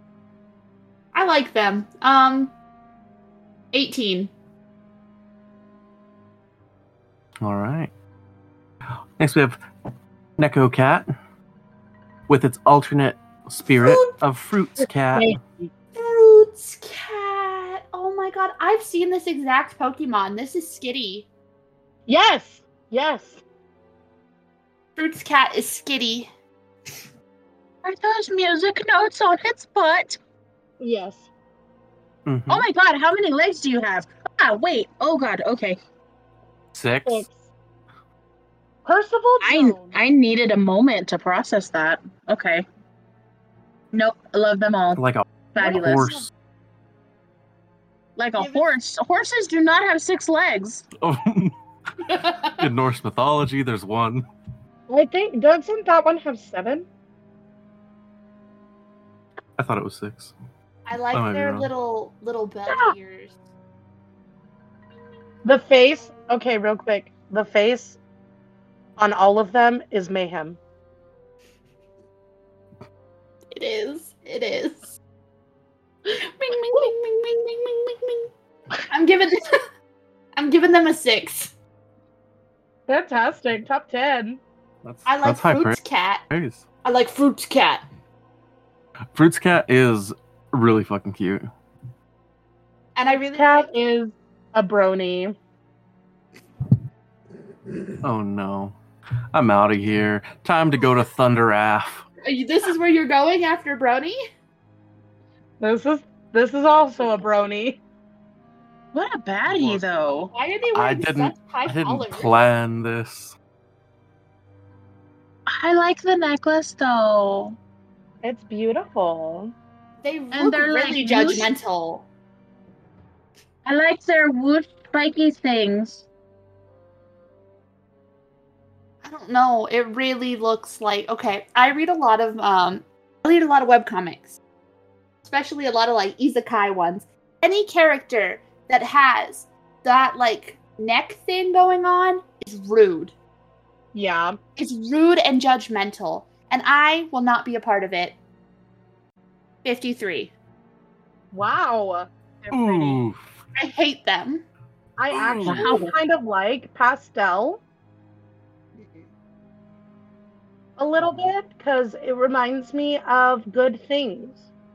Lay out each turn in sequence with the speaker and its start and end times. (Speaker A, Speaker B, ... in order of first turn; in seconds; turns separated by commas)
Speaker A: 1.1-2.5, Speaker A: 3.7-4.3, Speaker B: 7.4-7.9, Speaker B: 9.2-9.6, Speaker B: 10.4-11.1, Speaker B: 12.3-15.3, Speaker C: 15.1-15.7, Speaker A: 15.9-21.3, Speaker C: 22.1-23.4, Speaker A: 24.9-26.3, Speaker D: 27.8-30.2, Speaker C: 30.8-31.3, Speaker B: 32.2-32.7, Speaker D: 32.5-35.8, Speaker B: 36.7-37.2, Speaker C: 37.0-37.5, Speaker C: 38.8-40.0, Speaker D: 39.4-42.6, Speaker D: 43.9-45.0, Speaker B: 45.0-46.3, Speaker D: 45.5-46.2, Speaker C: 45.6-46.2, Speaker D: 48.2-50.9, Speaker C: 48.4-48.7, Speaker B: 51.0-54.2, Speaker A: 52.1-52.6, Speaker C: 54.9-56.9, Speaker B: 59.6-60.3, Speaker A: 60.9-63.4, Speaker B: 61.1-61.7, Speaker C: 62.7-62.9, Speaker C: 65.4-68.0, Speaker C: 69.0-70.6, Speaker A: 73.5-74.9, Speaker A: 76.0-78.3, Speaker A: 78.9-79.6, Speaker A: 80.3-81.5, Speaker C: 82.9-84.4, Speaker B: 84.8-85.8, Speaker A: 85.0-86.2, Speaker B: 86.3-86.6, Speaker A: 86.8-87.8, Speaker B: 89.1-91.5, Speaker A: 92.9-93.7, Speaker C: 93.1-95.3, Speaker B: 98.0-98.7, Speaker B: 99.3-102.0, Speaker A: 102.2-104.2, Speaker C: 105.6-107.8, Speaker D: 108.9-110.3, Speaker B: 109.5-110.0, Speaker A: 110.3-112.3, Speaker B: 110.7-113.3, Speaker D: 115.5-117.6, Speaker C: 118.2-119.5, Speaker A: 120.0-122.1, Speaker D: 120.3-121.5, Speaker D: 123.6-126.0, Speaker A: 129.0-134.4, Speaker A: 135.2-143.1, Speaker C: 143.9-144.4, Speaker A: 144.6-148.2, Speaker A: 149.6-150.3, Speaker C: 151.3-153.0, Speaker B: 152.5-153.3, Speaker A: 153.6-154.4, Speaker C: 155.0-157.6, Speaker B: 155.1-155.7, Speaker D: 155.4-155.9, Speaker A: 158.8-159.1, Speaker C: 160.8-164.4